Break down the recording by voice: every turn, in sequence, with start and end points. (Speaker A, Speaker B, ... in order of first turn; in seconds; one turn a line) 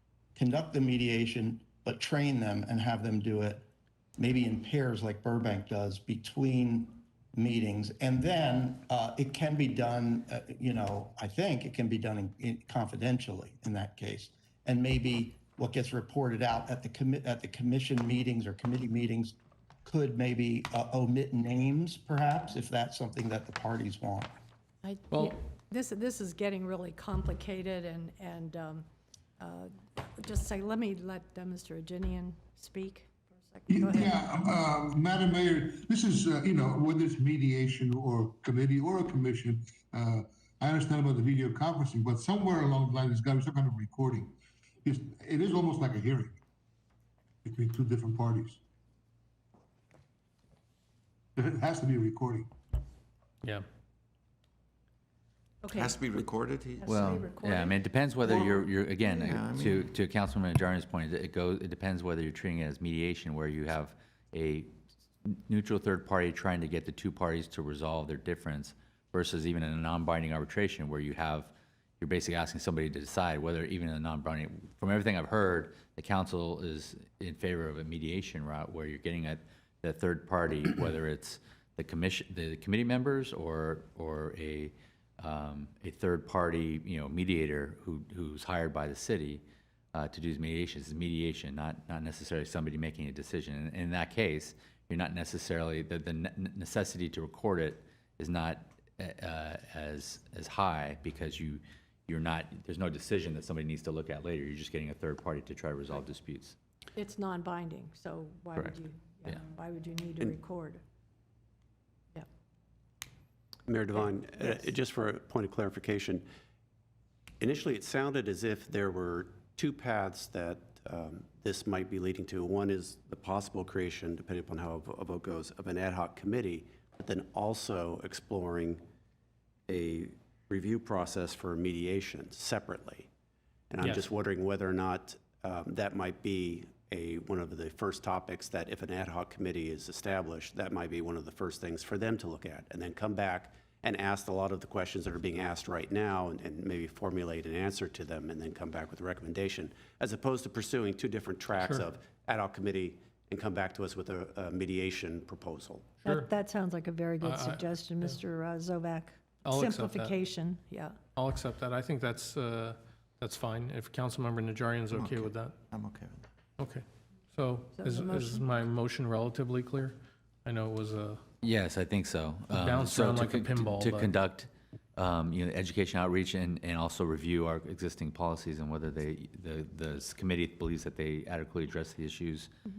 Speaker A: 0.3-3.7
Speaker A: 4.2-24.4
Speaker B: 24.8-28.9
Speaker B: 29.4-34.2
Speaker C: 33.7-46.4
Speaker C: 47.4-48.6
Speaker C: 51.4-52.5
Speaker B: 55.6-56.2
Speaker D: 55.7-56.9
Speaker B: 56.8-57.8
Speaker E: 56.9-64.7
Speaker D: 58.2-59.9
Speaker E: 65.2-89.4
Speaker E: 89.9-106.5
Speaker B: 107.0-110.8
Speaker F: 113.7-116.2
Speaker B: 114.0-114.5
Speaker F: 117.4-128.8
Speaker F: 129.7-133.1
Speaker F: 133.7-156.0
Speaker G: 133.8-134.1
Speaker G: 151.6-151.8
Speaker B: 156.0-161.0
Speaker G: 157.2-158.2
Speaker G: 159.4-160.1
Speaker G: 161.2-165.6
Speaker D: 164.9-166.2
Speaker G: 166.6-171.2
Speaker B: 167.8-168.5
Speaker E: 171.4-182.5
Speaker G: 172.6-174.1